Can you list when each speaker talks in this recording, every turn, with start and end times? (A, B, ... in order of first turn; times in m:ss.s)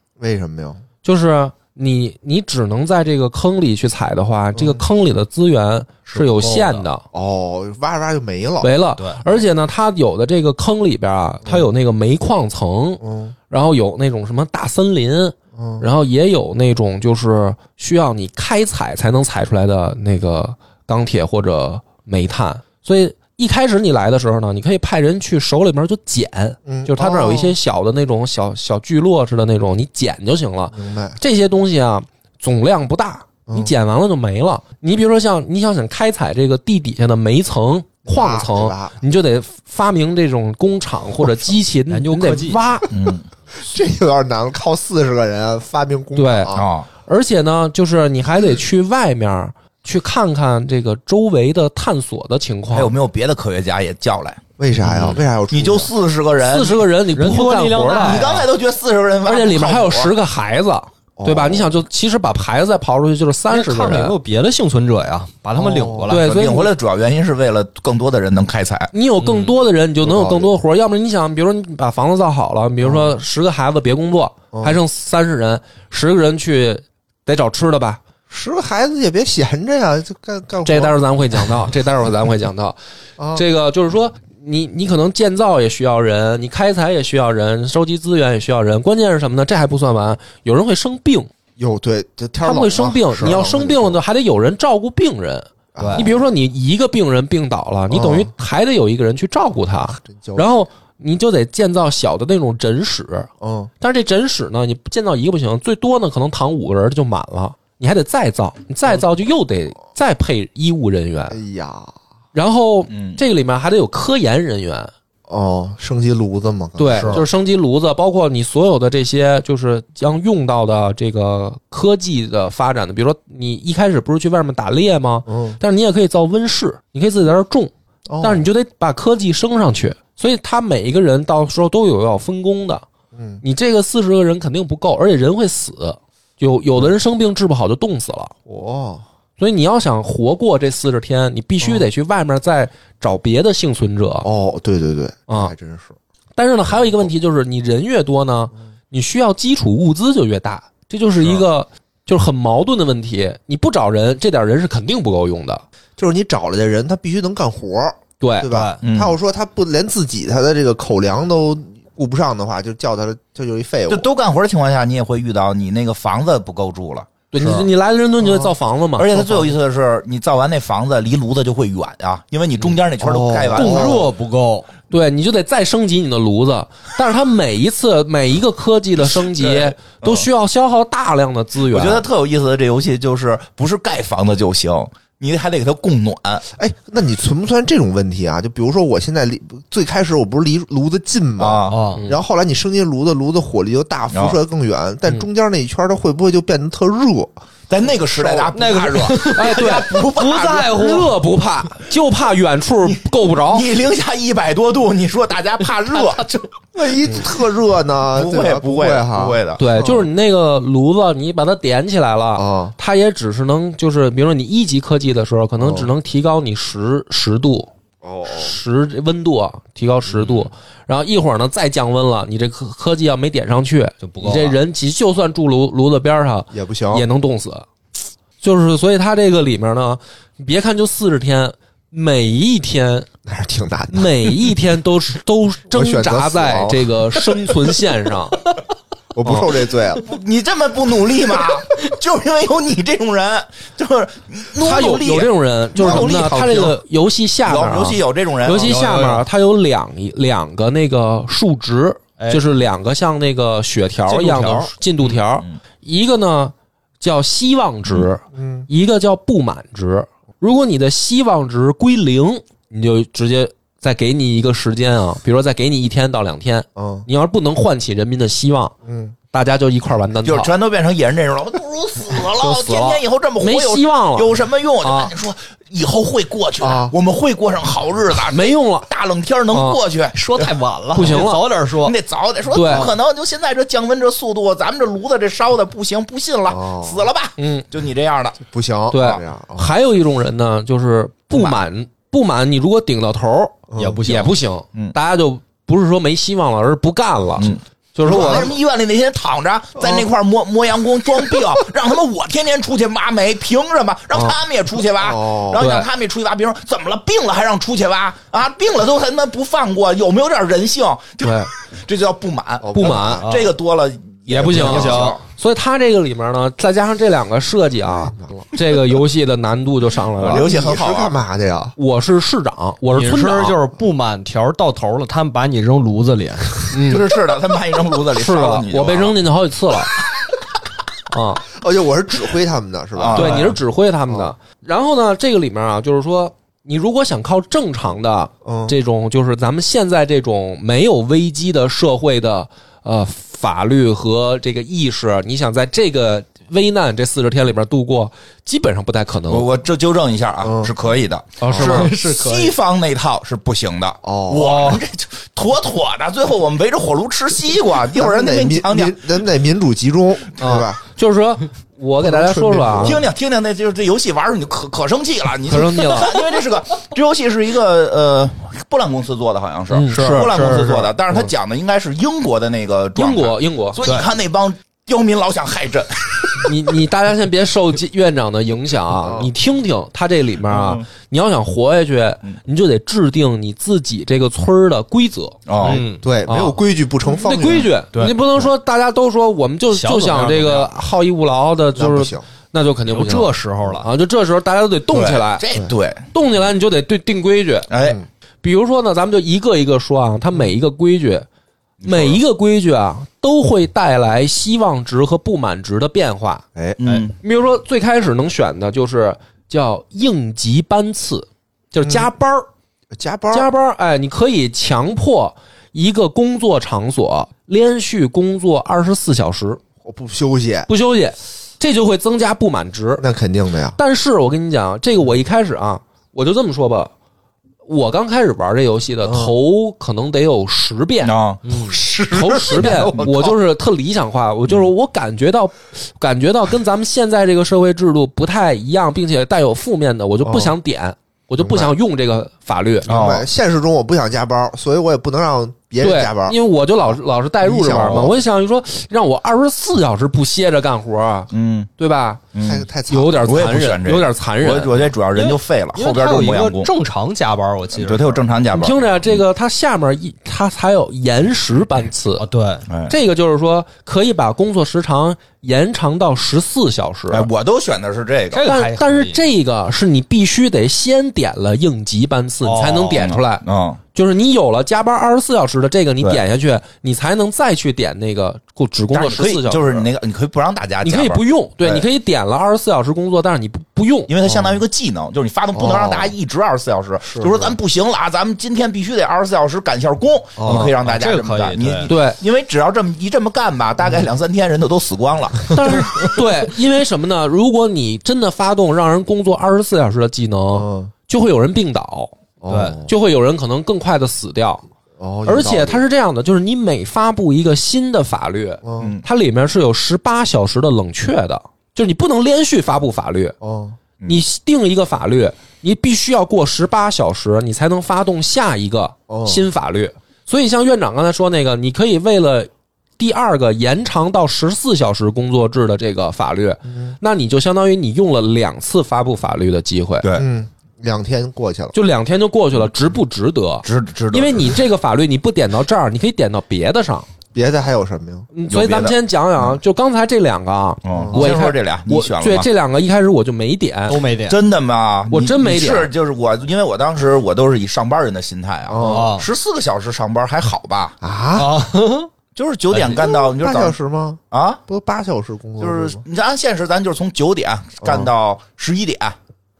0:00.2-0:00.8 A
0:01.0-0:07.0 B
0:04.6-0:04.8 A
0:06.1-0:06.9 C
0:07.1-0:08.7 A
0:08.6-0:42.9 B
0:11.4-0:11.7 A
0:13.0-0:13.3 A
0:15.6-0:15.9 A
0:26.7-0:27.6 A
0:30.7-0:31.2 A
0:33.5-0:33.7 A
0:38.1-0:39.0 A
0:41.9-0:42.6 C
0:42.9-0:43.3 D
0:43.6-0:46.7 A
0:46.2-0:46.5 B
0:46.5-0:46.9 D
0:47.0-0:52.9 B
0:52.7-0:54.4 D
0:54.6-0:55.9 A
0:54.8-0:55.2 C
0:55.5-0:56.8 D
0:56.4-0:58.3 B
0:57.1-0:58.5 C
0:58.0-1:00.1 D
0:59.3-1:04.2 B
1:01.2-1:01.7 A
1:03.5-1:06.2 C
1:05.6-1:06.1 A
1:06.1-1:06.7 B
1:06.1-1:08.9 D
1:08.9-1:18.0 B
1:09.2-1:09.5 C
1:10.0-1:10.5 A
1:12.8-1:13.2 A
1:14.5-1:14.8 A
1:18.3-1:21.0 A
1:20.6-1:22.8 B
1:23.2-1:23.4 A
1:23.3-1:31.3 B
1:31.6-1:34.0 A
1:32.4-1:43.3 B
1:35.8-1:36.2 A
1:35.8-1:36.1 C
1:37.9-1:38.3 A
1:40.0-1:40.5 A
1:43.4-1:43.7 A
1:43.8-1:51.4 B
1:51.3-1:52.0 A
1:52.3-1:54.9 B
1:52.9-1:53.2 D
1:55.3-1:57.2 A
1:56.8-2:12.8 B
1:56.9-1:57.2 C
2:05.3-2:05.6 A
2:08.1-2:08.5 A
2:13.1-2:13.4 A
2:13.4-2:18.3 B
2:18.5-2:19.0 A
2:19.4-2:24.3 B
2:24.2-2:26.0 A
2:25.3-2:25.5 B
2:26.4-2:35.6 B
2:36.0-2:44.1 A
2:38.2-2:38.5 B
2:38.5-2:38.8 C
2:38.8-2:39.2 D
2:43.9-2:47.1 D
2:47.3-2:49.4 B
2:48.2-2:48.5 A
2:49.0-2:54.0 D
2:53.0-2:54.1 A
2:53.5-2:54.7 C
2:54.9-3:02.0 B
2:59.1-3:00.3 D
3:01.7-3:06.4 D
3:06.6-3:17.3 A
3:11.4-3:11.8 D
3:11.7-3:12.0 C
3:12.0-3:12.2 B
3:14.1-3:14.4 D
3:17.7-3:21.0 D
3:18.2-3:18.5 A
3:18.3-3:21.2 C
3:19.2-3:23.7 B
3:22.8-3:27.3 D
3:26.8-3:30.0 A
3:28.1-3:29.6 D
3:29.6-3:37.7 B
3:32.4-3:32.8 A
3:35.6-3:35.9 A
3:38.0-3:38.6 A
3:38.3-3:47.7 B
3:44.0-3:44.6 C
3:46.5-3:47.1 A
3:48.4-3:53.1 B
3:53.2-3:54.5 A
3:53.9-3:58.4 B
3:55.7-3:57.3 A
3:59.2-4:00.1 A
4:00.0-4:06.8 D
4:04.6-4:28.7 B
4:05.8-4:06.1 A
4:07.5-4:08.8 D
4:08.6-4:09.3 C
4:12.2-4:12.4 C
4:14.1-4:14.7 C
4:18.3-4:18.7 A
4:26.8-4:27.1 A
4:28.8-4:29.2 A
4:29.3-4:30.5 B
4:30.2-4:40.5 D
4:32.3-4:35.1 B
4:36.6-4:36.9 A
4:38.3-4:38.9 B
4:39.5-4:39.8 B
4:40.1-4:42.0 C
4:40.9-4:41.4 B
4:41.8-4:48.4 D
4:42.5-4:42.9 B
4:42.6-4:42.9 C
4:46.5-4:47.1 A
4:47.4-4:47.7 B
4:48.4-4:49.7 A
4:48.9-4:58.5 B
4:51.3-4:51.6 D
4:53.7-4:54.1 A
4:53.8-4:54.4 C
4:57.4-5:15.2 D
4:58.0-4:58.5 A
4:59.8-5:00.1 A
5:05.0-5:05.7 A
5:05.6-5:05.9 B
5:11.2-5:11.5 B
5:12.6-5:13.3 A
5:12.7-5:13.2 B
5:13.2-5:13.5 C
5:14.3-5:20.5 B
5:14.5-5:15.2 C
5:17.8-5:18.5 A
5:20.2-5:21.8 A
5:20.2-5:21.2 D
5:21.8-5:23.6 B
5:22.9-5:26.7 C
5:26.7-5:27.1 B
5:26.8-5:29.2 D
5:28.1-5:30.0 B
5:31.1-5:31.4 B
5:31.5-5:33.5 A
5:33.0-5:33.6 D
5:33.1-5:49.5 B
5:38.4-5:38.8 A
5:49.3-5:59.0 D
5:50.4-5:50.7 A
5:51.4-5:51.9 B
5:51.5-5:52.6 C
5:54.0-5:54.7 A
5:54.4-5:54.8 C
5:57.9-6:00.8 A
6:00.4-6:03.0 B
6:02.0-6:03.0 A
6:02.8-6:16.5 D
6:05.5-6:06.2 B
6:09.7-6:10.3 B
6:09.9-6:10.9 C
6:13.0-6:13.8 B
6:13.8-6:14.1 C
6:16.4-6:35.4 B
6:18.9-6:19.3 A
6:20.5-6:20.8 D
6:25.5-6:25.8 D
6:25.6-6:26.0 C
6:26.0-6:27.7 A
6:29.7-6:30.7 C
6:31.8-6:32.2 A
6:32.9-6:33.9 C
6:34.9-6:36.1 D
6:36.1-6:37.7 B
6:37.7-6:38.0 D
6:37.8-6:38.1 A
6:38.4-6:41.3 B
6:41.8-6:42.2 D
6:41.8-6:46.4 B
6:46.8-6:47.2 D
6:47.2-6:52.5 B
6:51.8-6:52.1 A
6:52.9-6:53.5 A
6:53.3-6:59.6 B
6:59.8-7:00.7 A
7:00.7-7:03.0 B
7:03.0-7:03.8 A
7:03.8-7:06.9 B
7:07.6-7:11.1 B
7:09.0-7:09.3 A
7:11.0-7:12.9 D
7:11.4-7:11.8 C
7:12.1-7:22.9 B
7:12.3-7:13.3 A
7:20.2-7:20.6 A
7:21.4-7:21.7 A
7:22.9-7:26.4 A
7:22.9-7:23.2 D
7:25.8-7:32.2 B
7:27.4-7:28.2 A
7:27.8-7:28.1 D
7:31.3-7:31.7 D
7:32.3-7:32.7 D
7:32.4-7:33.6 A
7:32.9-7:34.9 B
7:33.2-7:36.7 D
7:35.1-7:38.3 C
7:37.8-7:39.2 D
7:38.5-7:42.2 B
7:42.2-7:42.7 C
7:42.7-7:43.0 D
7:42.9-7:47.3 B
7:47.1-7:48.4 D
7:48.3-7:49.2 C
7:48.4-7:53.4 B
7:52.4-7:53.1 C
7:52.9-7:53.8 D
7:53.9-7:59.9 B
7:58.9-8:01.9 D
8:00.8-8:04.1 B
8:04.1-8:16.2 D
8:04.2-8:04.6 A
8:05.5-8:06.1 A
8:07.1-8:07.6 A
8:10.4-8:10.7 A
8:10.5-8:10.7 B
8:10.8-8:11.9 C
8:11.9-8:12.2 B
8:15.5-8:22.2 B
8:20.5-8:20.9 A
8:22.4-8:22.9 A
8:22.5-8:22.8 C
8:22.8-8:24.6 B
8:25.0-8:25.8 A
8:25.2-8:33.4 B
8:28.6-8:29.0 A
8:28.8-8:29.0 D
8:33.4-8:33.8 A
8:34.0-8:50.1 B
8:39.1-8:39.4 A
8:50.0-8:50.3 D
8:50.1-8:51.7 A
8:51.7-8:57.1 B
8:53.6-8:54.6 D
8:57.3-8:58.3 A
8:58.3-9:04.0 B
8:58.5-8:59.6 D
9:00.8-9:02.5 D
9:00.9-9:01.3 A
9:03.9-9:04.4 C
9:04.3-9:11.0 D
9:05.1-9:05.9 B
9:08.7-9:09.1 A
9:08.8-9:09.3 C
9:11.0-9:11.6 A
9:11.4-9:12.1 C
9:12.4-9:13.8 D
9:12.7-9:13.0 C
9:12.8-9:16.0 A
9:14.3-9:14.6 D
9:15.6-9:19.2 D
9:17.8-9:18.1 A